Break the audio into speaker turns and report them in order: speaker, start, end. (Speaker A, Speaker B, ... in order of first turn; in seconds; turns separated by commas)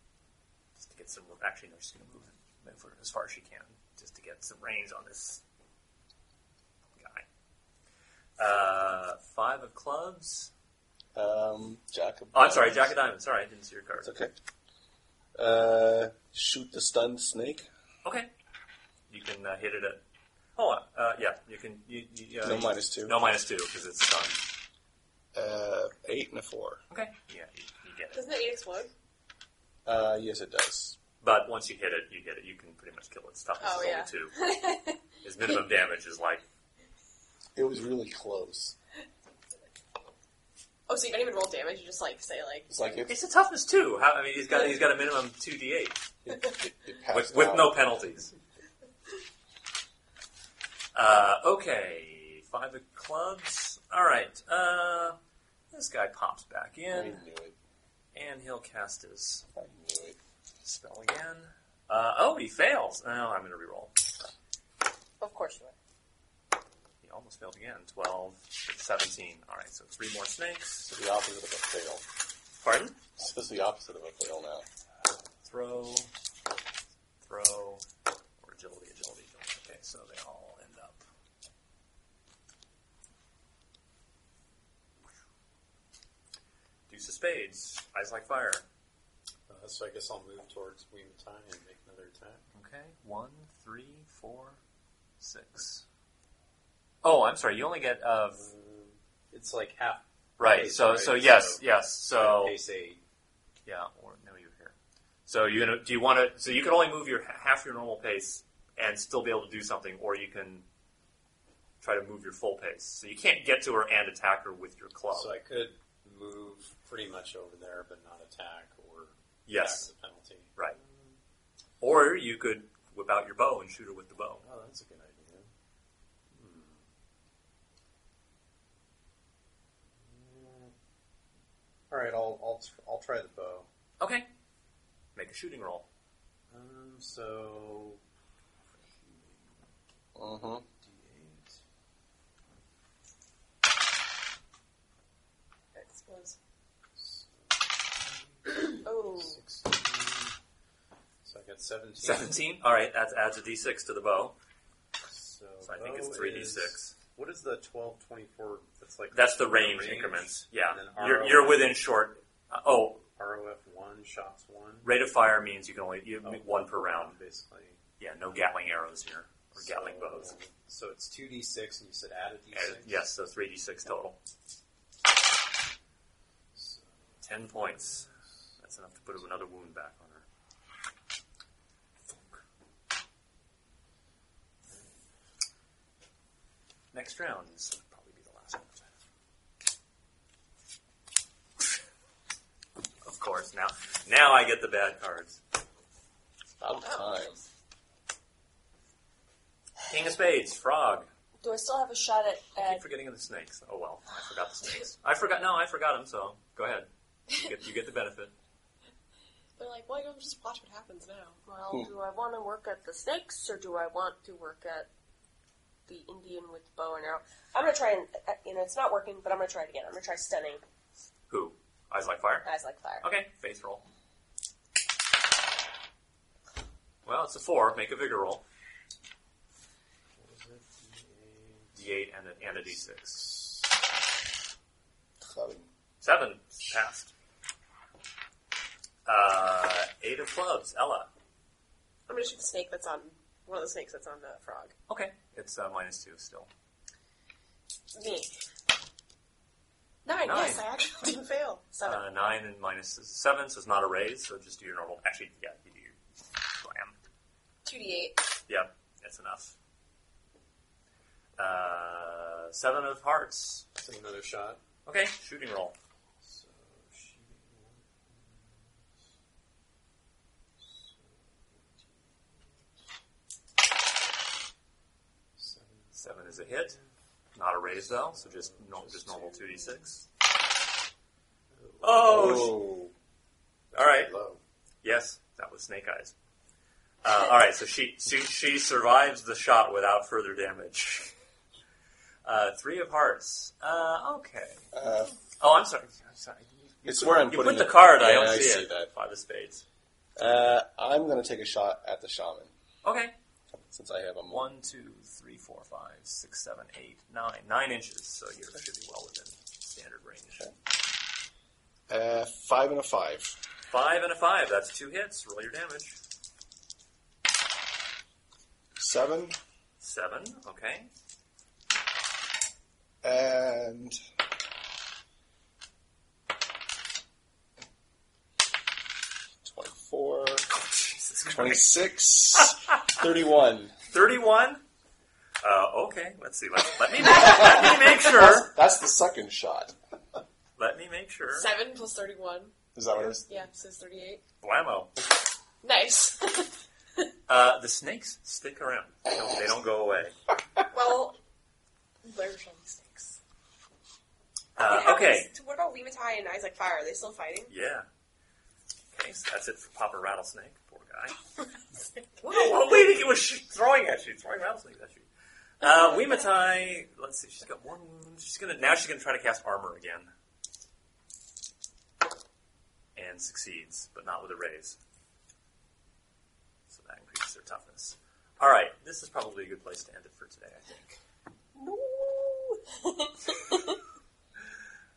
Speaker A: 0.8-5.4, Speaker A: 7.0-7.2, Speaker A: 8.4-10.5, Speaker B: 11.2-12.9, Speaker A: 12.3-14.1, Speaker B: 14.0-14.3, Speaker B: 15.3-17.7, Speaker A: 18.1-18.3, Speaker A: 19.1-20.0, Speaker A: 20.6-24.4, Speaker B: 22.4-23.2, Speaker B: 25.3-26.8, Speaker A: 26.9-28.3, Speaker C: 28.1-28.9, Speaker B: 29.9-31.0, Speaker A: 31.2-34.4, Speaker C: 33.6-35.0, Speaker A: 35.2-36.4, Speaker B: 37.6-38.8, Speaker C: 40.9-42.7, Speaker B: 42.7-43.1, Speaker A: 43.1-46.0, Speaker B: 46.2-47.8, Speaker A: 47.1-48.3, Speaker A: 51.0-55.2, Speaker A: 55.7-57.2, Speaker B: 56.9-57.6, Speaker A: 58.1-59.5, Speaker B: 59.5-60.2, Speaker A: 60.6-63.9, Speaker D: 65.2-65.8, Speaker A: 67.0-70.9, Speaker B: 70.9-72.0, Speaker A: 72.6-73.0, Speaker B: 73.2-74.7, Speaker A: 75.4-76.1, Speaker A: 77.2-77.8, Speaker A: 78.4-81.0, Speaker A: 86.9-88.7, Speaker E: 89.5-92.5, Speaker A: 92.5-94.6, Speaker A: 95.2-95.8, Speaker A: 97.0-98.4, Speaker E: 98.3-103.0, Speaker A: 100.4-102.5, Speaker A: 103.7-104.8, Speaker A: 105.3-110.7, Speaker A: 111.8-115.3, Speaker E: 115.1-121.2, Speaker A: 119.5-119.9, Speaker A: 121.8-124.4, Speaker E: 124.4-125.5, Speaker E: 126.3-126.9, Speaker E: 130.0-130.7, Speaker E: 131.9-133.7, Speaker A: 134.0-134.3, Speaker A: 135.2-135.9, Speaker E: 136.5-138.0, Speaker E: 138.7-139.7, Speaker B: 140.2-140.7, Speaker E: 140.7-141.6, Speaker C: 145.8-146.4, Speaker E: 147.0-150.3, Speaker C: 149.0-149.4, Speaker E: 151.2-152.4, Speaker A: 152.0-154.4, Speaker E: 155.1-161.8, Speaker A: 155.6-156.9, Speaker A: 159.1-163.1, Speaker E: 163.2-164.9, Speaker A: 164.8-167.2, Speaker E: 166.2-167.8, Speaker A: 168.0-170.4, Speaker E: 169.6-173.0, Speaker A: 172.5-174.2, Speaker E: 176.6-178.1, Speaker A: 177.2-178.1, Speaker A: 178.6-180.2, Speaker A: 186.9-188.9, Speaker A: 193.0-195.4, Speaker B: 196.6-197.4, Speaker A: 199.8-201.1, Speaker D: 201.4-202.8, Speaker A: 202.6-208.3, Speaker C: 209.6-211.4, Speaker D: 211.5-214.9, Speaker D: 215.9-220.6, Speaker A: 221.3-222.5, Speaker D: 222.4-223.1, Speaker A: 223.0-223.8, Speaker A: 227.1-228.4, Speaker E: 230.2-231.8, Speaker A: 231.8-233.3, Speaker E: 232.4-233.6, Speaker B: 235.2-235.7, Speaker A: 236.0-237.1, Speaker A: 239.1-241.1, Speaker C: 242.1-244.8, Speaker A: 244.9-246.5, Speaker C: 247.9-248.3, Speaker C: 250.1-252.0, Speaker A: 250.2-250.6, Speaker A: 251.8-256.0, Speaker A: 256.5-256.9, Speaker C: 257.6-258.2, Speaker A: 258.5-259.6, Speaker A: 261.4-263.7, Speaker E: 263.8-264.6, Speaker A: 264.9-265.8, Speaker E: 266.2-268.9, Speaker E: 270.6-272.6, Speaker E: 275.4-276.8, Speaker A: 276.0-276.8, Speaker A: 277.4-280.0, Speaker E: 277.9-279.8, Speaker E: 281.5-282.3, Speaker A: 281.8-282.6, Speaker B: 282.1-282.9, Speaker A: 283.7-284.1, Speaker E: 283.8-284.4, Speaker A: 284.8-286.1, Speaker A: 287.0-291.1, Speaker A: 292.2-294.6, Speaker B: 294.7-295.2, Speaker A: 295.4-299.6, Speaker B: 296.8-298.9, Speaker B: 300.2-302.5, Speaker A: 302.8-303.1, Speaker B: 303.7-304.5, Speaker A: 304.3-310.5, Speaker B: 311.9-313.4, Speaker A: 313.7-316.0, Speaker B: 318.8-319.4, Speaker A: 319.8-320.9, Speaker B: 323.0-324.0, Speaker B: 329.4-330.6, Speaker A: 330.6-331.7, Speaker B: 331.3-333.8, Speaker A: 332.4-333.0, Speaker A: 333.9-334.6, Speaker A: 335.4-338.5, Speaker B: 337.2-339.8, Speaker A: 340.6-341.5, Speaker C: 341.3-342.6, Speaker B: 342.8-343.3, Speaker C: 343.2-344.2, Speaker A: 344.4-344.9, Speaker C: 345.6-346.5, Speaker A: 347.3-350.2, Speaker C: 350.7-351.2, Speaker C: 352.0-353.2, Speaker A: 354.6-355.3, Speaker C: 354.6-357.5, Speaker A: 357.5-357.9, Speaker A: 358.9-361.2, Speaker A: 362.2-365.1, Speaker A: 365.6-370.1, Speaker A: 373.0-374.8, Speaker A: 376.7-381.0, Speaker D: 381.6-383.8